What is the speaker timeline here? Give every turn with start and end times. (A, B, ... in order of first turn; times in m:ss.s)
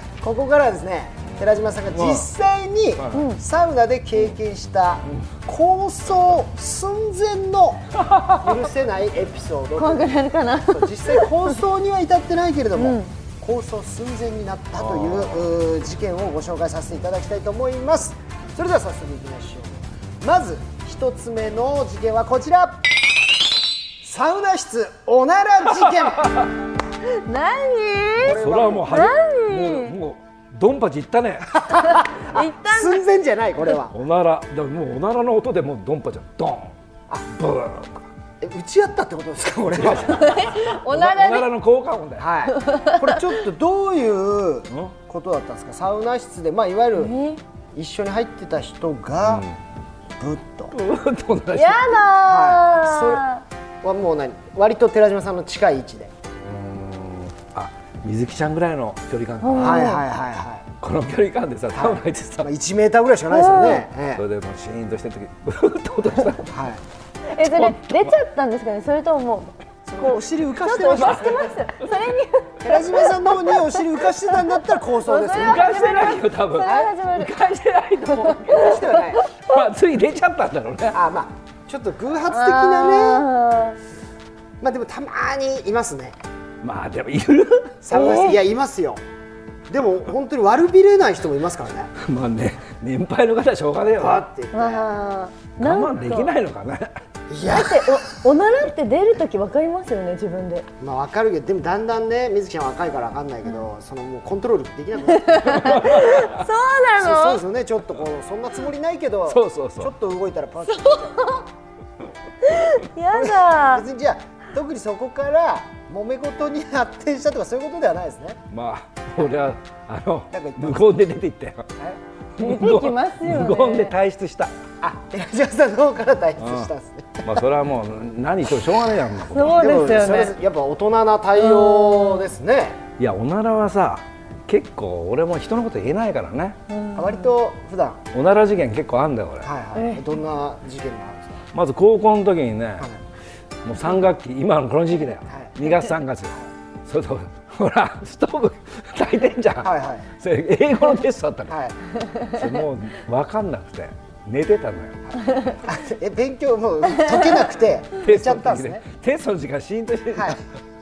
0:00.2-0:07.8 A
0:01.3-0:02.3 B
0:03.0-0:03.3 B
0:03.1-0:03.4 C
0:08.0-0:08.5 B
0:08.4-0:22.8 A
0:09.8-0:11.6 C
0:12.8-0:13.1 C
0:14.8-0:15.5 B
0:24.0-0:26.3 A
0:25.9-0:26.5 B
0:27.1-0:29.9 C
0:28.2-0:29.0 A
0:28.3-0:31.6 B
0:31.5-0:33.9 A
0:31.7-0:33.0 C
0:33.9-0:36.7 B
0:37.3-0:38.1 B
0:38.4-0:40.5 A
0:39.7-0:42.3 B
0:40.1-0:41.5 C
0:42.2-0:47.1 A
0:42.5-0:43.3 C
0:47.0-0:47.4 C
0:47.7-0:49.5 A
0:49.3-0:49.6 B
0:50.2-0:50.7 A
0:50.7-0:52.0 B
0:51.5-0:53.4 C
0:52.2-0:53.2 A
0:53.8-0:56.1 A
0:56.4-0:59.9 B
0:59.4-1:00.0 C
0:59.6-1:00.7 A
1:00.8-1:02.5 B
1:01.7-1:04.2 A
1:03.3-1:03.9 C
1:04.2-1:06.5 B
1:06.5-1:06.8 A
1:07.3-1:17.4 C
1:07.4-1:08.2 B
1:09.9-1:11.5 A
1:10.7-1:12.1 B
1:12.6-1:15.7 A
1:15.3-1:18.9 B
1:16.6-1:16.9 A
1:18.1-1:19.4 C
1:18.5-1:19.2 A
1:19.4-1:21.0 B
1:20.9-1:23.3 A
1:22.3-1:23.8 C
1:24.6-1:26.2 A
1:26.6-1:27.8 B
1:27.8-1:29.0 A
1:27.9-1:28.4 C
1:29.7-1:31.9 A
1:32.0-1:34.3 B
1:34.0-1:34.9 A
1:34.5-1:36.3 C
1:35.6-1:37.0 B
1:37.3-1:38.1 A
1:37.4-1:40.7 C
1:40.8-1:46.0 A
1:45.1-1:47.4 C
1:45.5-1:46.4 B
1:47.0-1:51.3 A
1:49.3-1:49.9 B
1:50.7-1:51.4 C
1:52.4-1:53.8 C
1:53.1-1:58.4 A
1:58.5-2:01.7 B
2:00.3-2:00.8 A
2:02.4-2:04.5 B
2:02.4-2:03.9 C
2:04.8-2:07.4 A
2:06.4-2:06.7 B
2:07.2-2:09.7 B
2:09.3-2:10.4 C
2:09.5-2:12.8 A
2:11.4-2:12.3 C
2:13.0-2:16.6 B
2:16.7-2:17.3 C
2:17.0-2:18.0 A
2:18.1-2:19.5 B
2:19.4-2:21.4 A
2:19.7-2:20.0 C
2:21.5-2:22.9 B
2:23.6-2:31.6 B
2:29.6-2:30.1 A
2:31.5-2:31.8 A
2:32.2-2:35.0 B
2:35.1-2:38.8 A
2:35.3-2:35.6 C
2:38.0-2:40.4 B
2:40.1-2:40.4 A